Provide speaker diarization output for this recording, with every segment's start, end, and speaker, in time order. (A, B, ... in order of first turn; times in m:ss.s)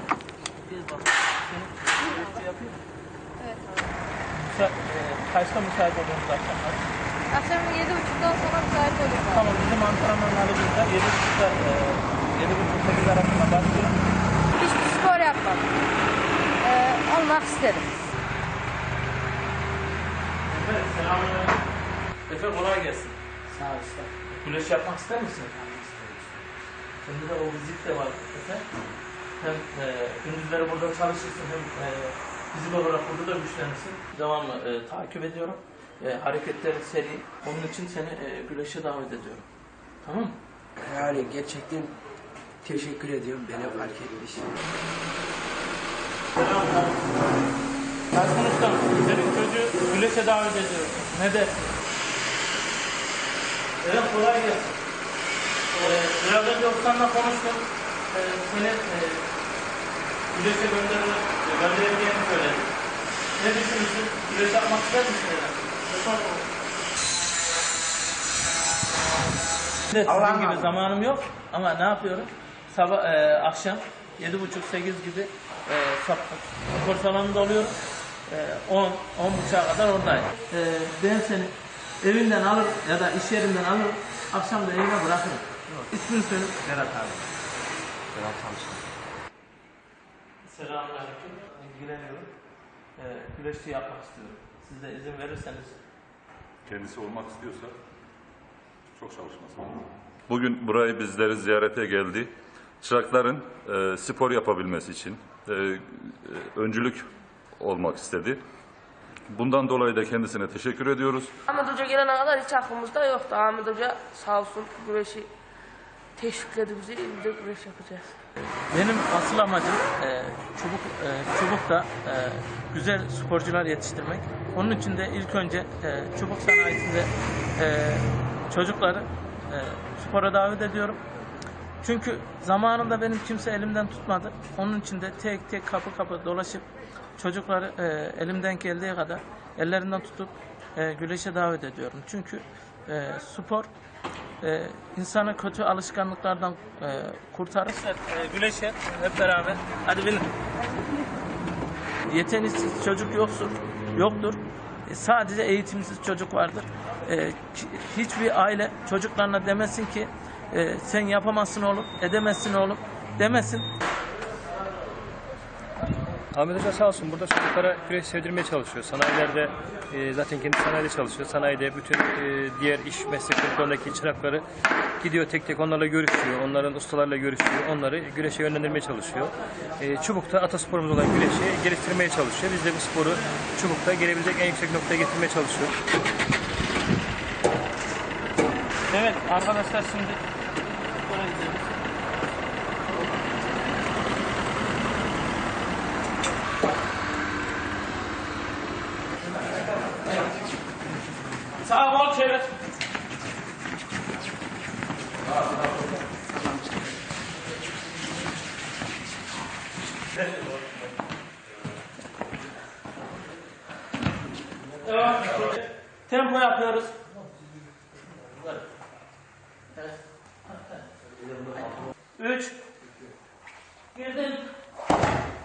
0:00.7-0:01.7 A
0:03.4-0:03.9 B
0:04.5-0:06.8 A
0:07.3-0:09.4 B
0:09.2-0:14.0 A
0:14.6-0:15.7 B
0:16.6-0:17.9 B
0:20.5-0:21.6 A
0:22.3-0:26.1 A
0:27.0-0:28.6 A
0:29.4-0:39.4 A
0:40.0-0:40.3 A
0:40.8-0:41.9 C
0:42.6-0:44.5 C
0:46.4-0:47.0 A
0:48.1-0:51.8 A
0:53.8-0:54.8 A
0:55.8-0:59.2 A
1:00.3-1:02.7 A
1:03.4-1:06.4 A
1:09.9-1:27.3 A
1:10.1-1:10.6 C
1:30.4-1:32.3 A
1:33.0-1:35.8 A
1:36.6-1:37.7 D
1:39.0-1:42.3 D
1:42.8-1:47.0 D
1:47.6-1:48.4 D
1:49.3-1:51.3 D
1:51.5-1:55.3 E
1:56.2-1:58.1 E
1:58.7-2:11.0 A
2:11.8-2:23.7 A
2:24.4-2:30.3 A
2:32.0-2:43.7 A
2:46.3-2:54.4 F
2:55.0-3:05.7 F
3:08.9-3:10.2 A
3:11.0-3:11.7 A
3:21.6-3:22.5 A
3:34.8-3:37.0 A
3:42.2-3:42.6 A
3:44.0-3:44.4 A